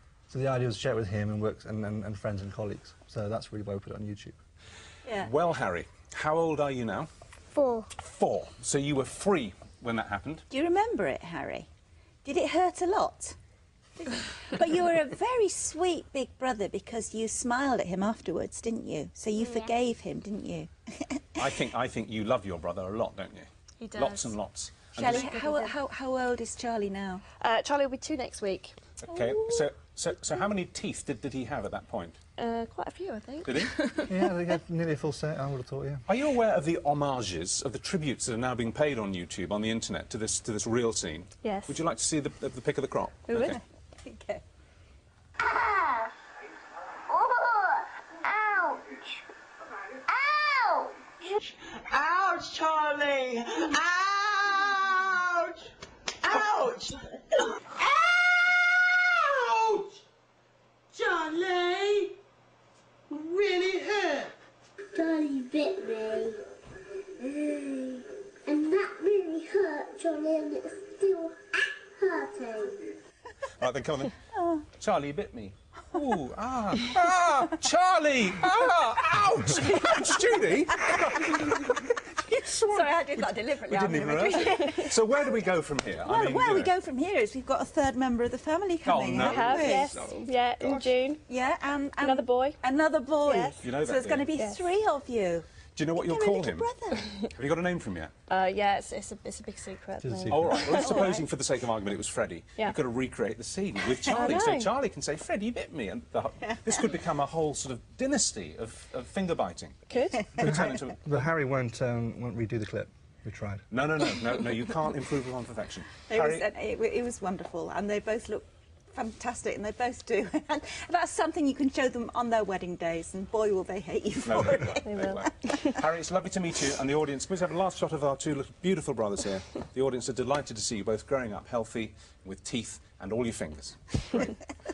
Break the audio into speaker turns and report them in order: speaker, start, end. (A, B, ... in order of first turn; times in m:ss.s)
0:00.3-0:04.4 A
0:05.0-0:05.3 B
0:05.2-0:07.1 C
0:07.5-0:07.9 D
0:07.9-0:10.4 C
0:10.5-0:11.7 B
0:12.2-0:13.4 B
0:14.0-0:21.3 B
0:21.4-0:25.3 C
0:23.8-0:24.3 E
0:25.0-0:27.2 B
0:25.0-0:25.7 E
0:27.4-0:28.8 E
0:29.0-0:32.2 C
0:32.4-0:34.2 E
0:33.4-0:33.7 C
0:34.1-0:36.0 A
0:36.1-0:43.6 C
0:41.4-0:41.8 E
0:43.3-0:43.6 E
0:43.4-0:44.4 B
0:45.4-0:46.1 D
0:47.1-0:49.2 D
0:50.0-0:51.0 D
0:51.9-0:55.6 F
0:56.2-0:57.1 F
0:57.8-1:00.0 F
1:00.9-1:02.1 F
1:03.1-1:04.3 F
1:04.9-1:06.4 D
1:07.2-1:12.9 D
1:13.6-1:14.2 C
1:14.3-1:14.6 B
1:14.8-1:22.9 C
1:19.6-1:20.3 B
1:20.9-1:21.5 B
1:22.6-1:25.5 B
1:23.7-1:26.7 C
1:24.4-1:24.8 E
1:26.0-1:29.9 B
1:28.8-1:30.9 C
1:29.1-1:31.2 E
1:31.3-1:37.1 B
1:32.0-1:32.6 E
1:33.2-1:33.6 E
1:33.6-1:34.3 C
1:34.3-1:34.7 E
1:35.8-1:36.7 C
1:37.3-1:38.1 C
1:38.3-1:41.0 E
1:40.0-1:40.6 A
1:40.3-1:51.3 C
1:40.6-1:41.2 B
1:44.0-1:44.7 E
1:46.4-1:46.7 B
1:49.9-1:50.3 E
1:50.4-1:53.6 A
1:53.7-1:56.4 C
1:56.1-2:04.8 B
2:04.2-2:14.4 C
2:04.9-2:05.7 E